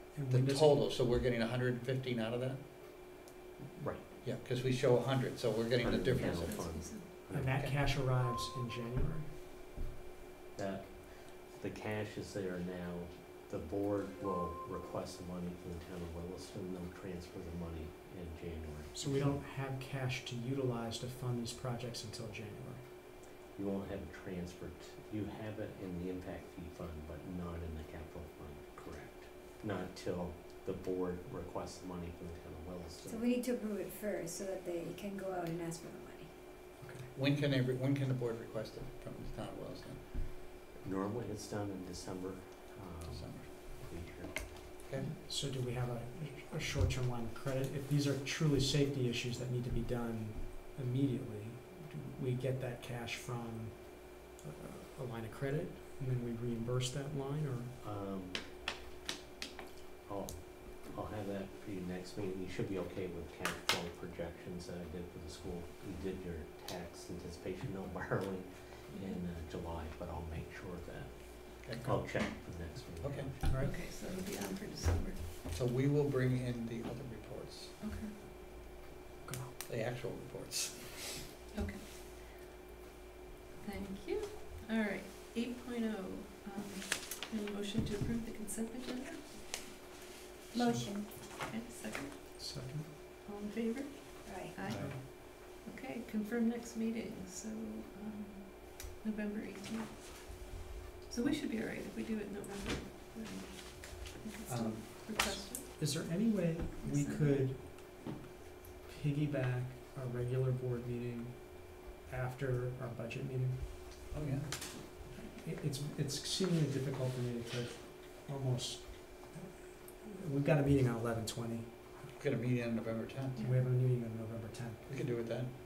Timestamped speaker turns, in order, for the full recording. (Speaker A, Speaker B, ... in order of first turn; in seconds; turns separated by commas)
Speaker A: 0.1-0.8, Speaker B: 0.3-2.6, Speaker C: 3.8-4.1, Speaker B: 4.2-6.6, Speaker C: 5.8-7.5, Speaker D: 6.1-7.0, Speaker A: 7.3-9.3, Speaker B: 7.4-7.7, Speaker C: 10.6-19.4, Speaker A: 18.9-22.8, Speaker C: 23.6-33.2, Speaker E: 33.1-36.3, Speaker A: 36.8-37.1, Speaker B: 37.1-40.0, Speaker C: 40.8-44.4, Speaker B: 43.1-43.5, Speaker A: 45.2-57.7, Speaker C: 57.8-58.5, Speaker C: 60.1-73.5, Speaker B: 71.6-72.1, Speaker B: 73.0-73.3, Speaker D: 73.6-75.2, Speaker B: 75.5-77.7, Speaker D: 77.8-78.1, Speaker B: 79.6-81.2, Speaker D: 81.5-81.8, Speaker D: 83.6-89.3, Speaker E: 90.5-91.1, Speaker A: 90.5-90.9, Speaker D: 91.4-92.3, Speaker A: 92.4-92.9, Speaker D: 93.2-100.5, Speaker E: 94.3-94.7, Speaker B: 94.7-94.9, Speaker D: 101.1-105.7, Speaker B: 104.5-105.2, Speaker A: 105.7-108.1, Speaker D: 106.8-107.4, Speaker A: 108.8-113.8, Speaker B: 114.1-114.5, Speaker A: 115.1-121.8, Speaker B: 122.2-123.5, Speaker A: 123.4-124.8, Speaker B: 124.9-125.5